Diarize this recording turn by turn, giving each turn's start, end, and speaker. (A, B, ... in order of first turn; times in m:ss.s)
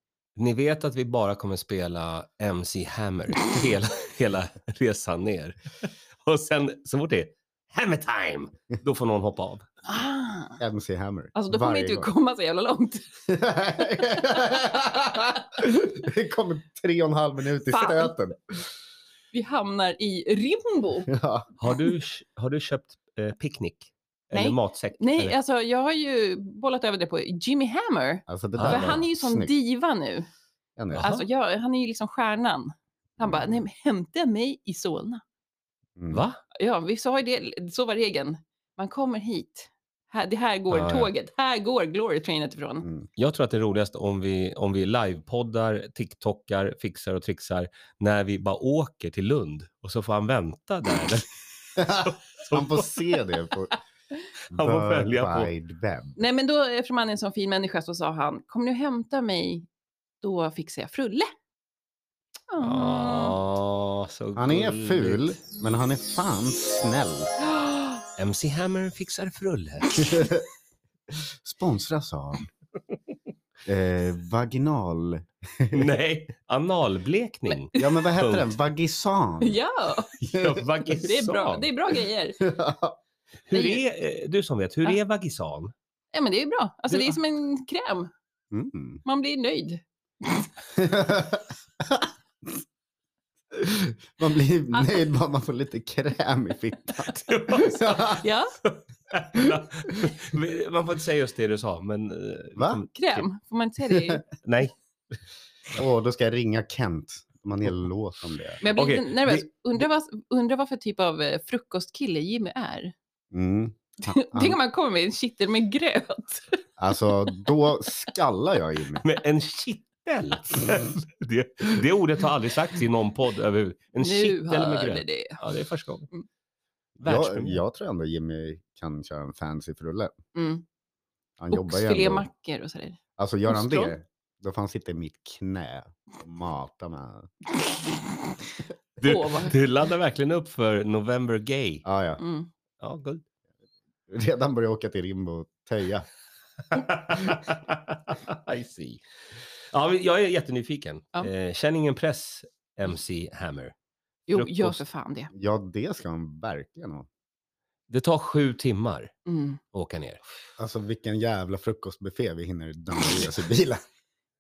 0:00.4-0:09.7 A
0:09.8-0:10.6 B
0:10.6-0:12.1 C
0:11.4-0:13.1 B
0:13.3-0:18.6 C
0:17.7-0:18.1 B
0:19.3-0:21.1 B
0:21.1-0:21.5 C
0:21.6-0:25.4 A
0:24.3-0:30.3 B
0:28.3-0:29.5 C
0:28.6-0:29.0 A
0:30.8-0:31.1 C
0:30.9-0:31.2 A
0:31.0-0:35.2 B
0:36.0-0:36.2 C
0:36.1-0:36.4 A
0:36.6-0:42.8 B
0:40.7-0:41.1 A
0:42.8-0:43.1 C
0:43.2-0:53.0 A
0:51.8-0:53.8 C
0:54.5-0:55.5 A
0:54.5-0:56.2 C
0:56.2-0:59.7 B
1:00.2-1:01.3 B
1:02.5-1:03.4 B
1:02.6-1:05.4 A
1:04.4-1:07.3 C
1:07.4-1:08.0 B
1:08.2-1:10.3 A
1:10.0-1:10.4 C
1:11.1-1:12.5 C
1:13.7-1:15.9 C
1:15.7-1:18.5 A
1:17.8-1:19.6 C
1:19.4-1:20.1 B
1:20.3-1:21.7 A
1:20.3-1:20.6 C
1:21.0-1:22.4 B
1:22.4-1:23.0 C
1:23.5-1:25.7 A
1:23.5-1:23.8 B
1:26.1-1:28.1 B
1:28.5-1:29.0 C
1:29.0-1:30.5 B
1:30.8-1:32.6 C
1:33.5-1:38.2 C
1:37.0-1:43.3 A
1:38.2-1:38.6 B
1:39.4-1:40.2 C
1:42.6-1:42.8 C
1:42.9-1:44.2 B
1:43.9-1:44.2 C
1:44.4-1:44.7 A
1:45.7-1:48.6 C
1:48.6-1:52.9 B
1:48.6-1:49.5 A
1:53.3-1:54.6 C
1:54.0-1:56.6 B
1:56.8-1:59.0 C
1:59.0-2:06.1 A
2:04.0-2:05.4 B
2:07.0-2:07.6 A
2:07.0-2:10.1 C
2:10.4-2:10.6 B
2:11.4-2:12.3 C
2:11.5-2:13.9 B
2:13.2-2:17.3 C
2:19.0-2:21.8 A
2:19.0-2:19.5 B
2:21.8-2:22.2 C
2:22.2-2:22.5 B
2:22.8-2:23.2 A
2:24.1-2:26.1 C
2:26.7-2:29.0 A
2:29.7-2:33.7 A
2:34.3-2:35.3 B
2:34.3-2:34.8 A
2:35.3-2:37.1 C
2:37.9-2:39.1 A
2:39.3-2:39.6 B
2:39.7-2:40.2 A
2:40.6-2:43.8 C